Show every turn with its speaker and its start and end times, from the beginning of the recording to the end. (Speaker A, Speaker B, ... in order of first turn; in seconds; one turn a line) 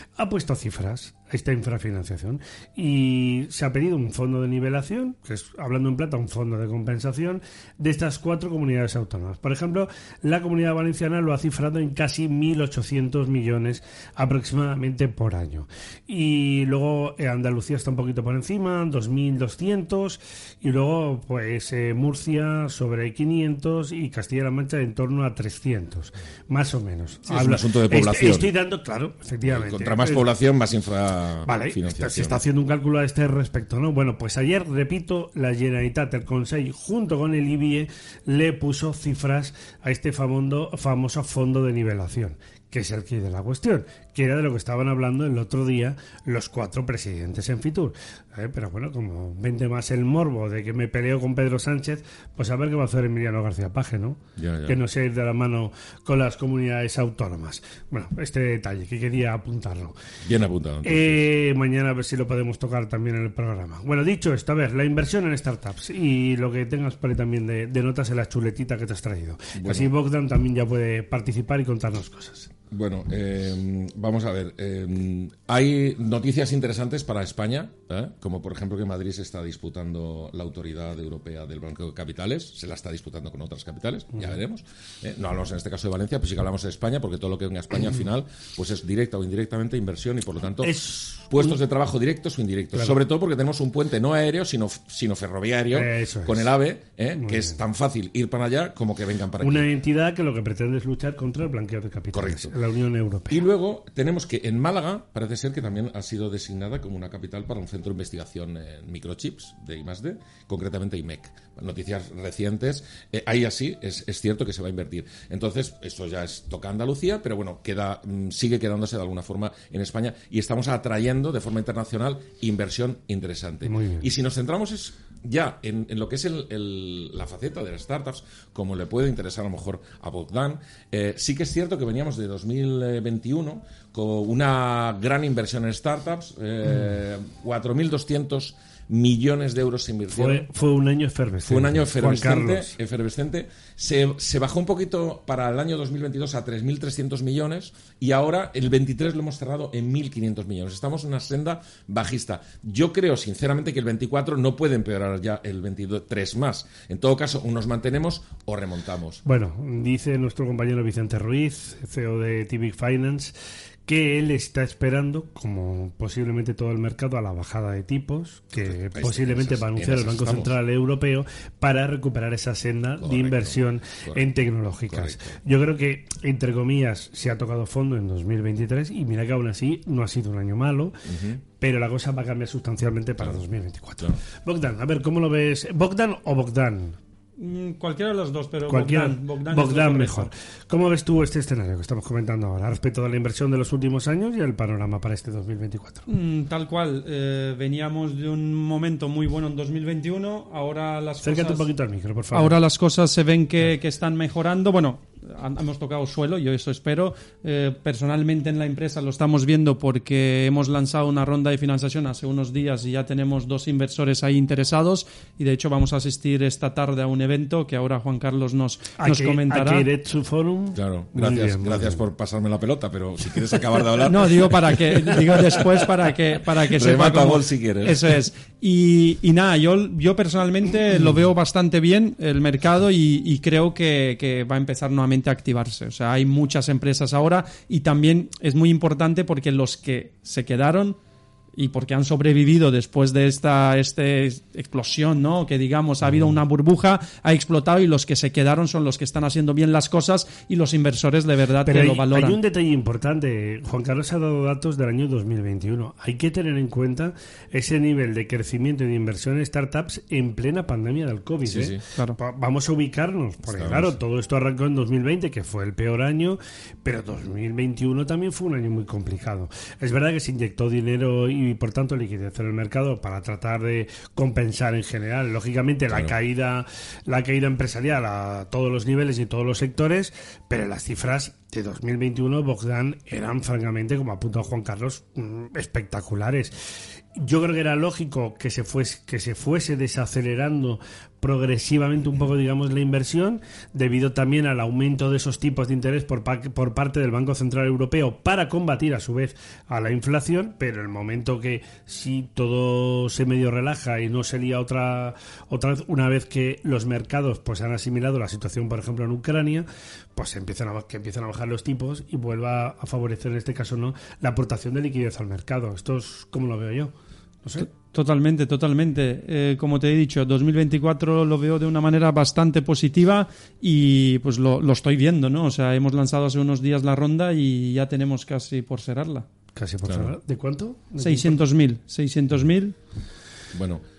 Speaker A: 0.2-30.2
Speaker B: 27.3-28.5
Speaker B: 29.5-32.4
Speaker A: 31.5-60.0
Speaker B: 54.4-54.8
Speaker B: 60.2-61.2
Speaker A: 60.8-72.5
Speaker B: 69.5-69.9
Speaker B: 72.7-90.8
Speaker A: 90.6-91.6
Speaker B: 91.3-99.7
Speaker A: 92.8-93.0
Speaker A: 95.7-96.5
Speaker A: 97.2-97.6
Speaker A: 99.4-103.5
Speaker B: 102.1-102.5
Speaker B: 103.3-140.4
Speaker A: 123.7-124.1
Speaker A: 140.1-142.7
Speaker B: 141.4-159.2
Speaker A: 159.2-163.3
Speaker A: 163.9-180.9
Speaker B: 168.6-170.6
Speaker B: 173.0-174.3
Speaker B: 174.9-175.4
Speaker B: 181.1-181.4
Speaker A: 181.6-187.0
Speaker C: 187.4-190.3
Speaker A: 188.7-196.1
Speaker C: 196.1-201.7
Speaker A: 201.2-202.6
Speaker C: 202.3-219.9
Speaker A: 219.0-222.0
Speaker B: 220.8-225.9
Speaker C: 224.1-241.0
Speaker B: 226.7-228.1
Speaker C: 241.6-252.4
Speaker A: 251.6-286.6
Speaker B: 261.4-261.8
Speaker B: 263.5-264.0
Speaker B: 275.9-276.1
Speaker A: 287.2-316.9
Speaker C: 317.6-329.3
Speaker A: 329.6-331.4
Speaker B: 329.9-330.1
Speaker C: 331.0-332.8
Speaker B: 333.5-333.8